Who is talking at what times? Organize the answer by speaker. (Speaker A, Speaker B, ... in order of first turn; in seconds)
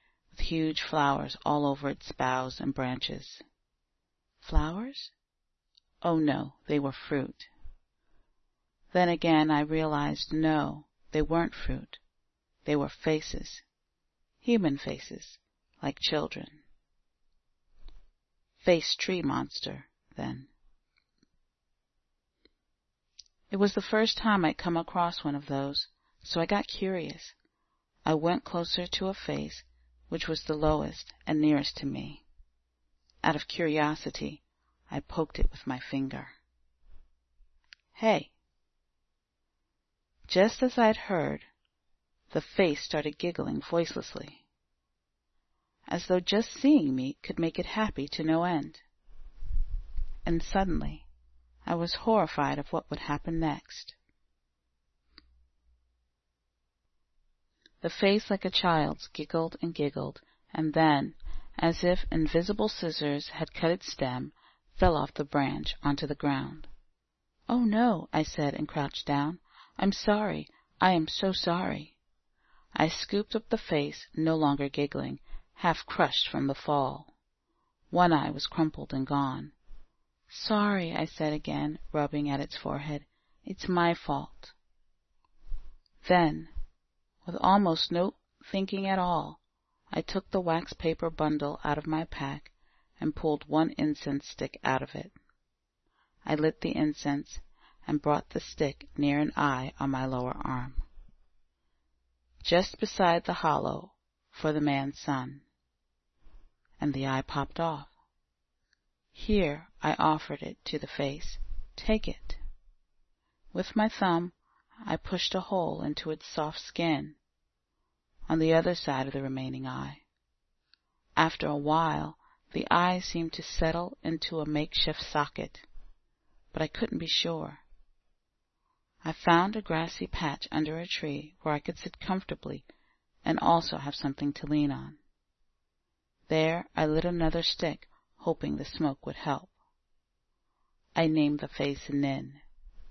Speaker A: 0.3-3.4, 4.4-5.1, 6.0-7.5, 8.9-12.0, 12.7-13.6, 14.4-16.6, 18.6-20.5, 23.5-27.3, 28.1-32.2, 33.2-36.4, 37.9-38.3, 40.3-41.5, 42.3-44.4, 45.9-48.8, 50.2-51.1, 51.6-54.0, 57.8-66.7, 67.5-72.0, 72.8-77.1, 77.9-79.5, 80.3-84.5, 86.0-86.5, 87.2-89.4, 89.9-95.1, 96.2-100.8, 102.4-105.5, 106.8-107.9, 109.1-112.4, 113.5-114.3, 114.8-117.2, 118.3-120.0, 121.2-125.7, 126.5-127.6, 129.0-132.7, 133.2-135.0, 136.3-139.5, 140.9-142.4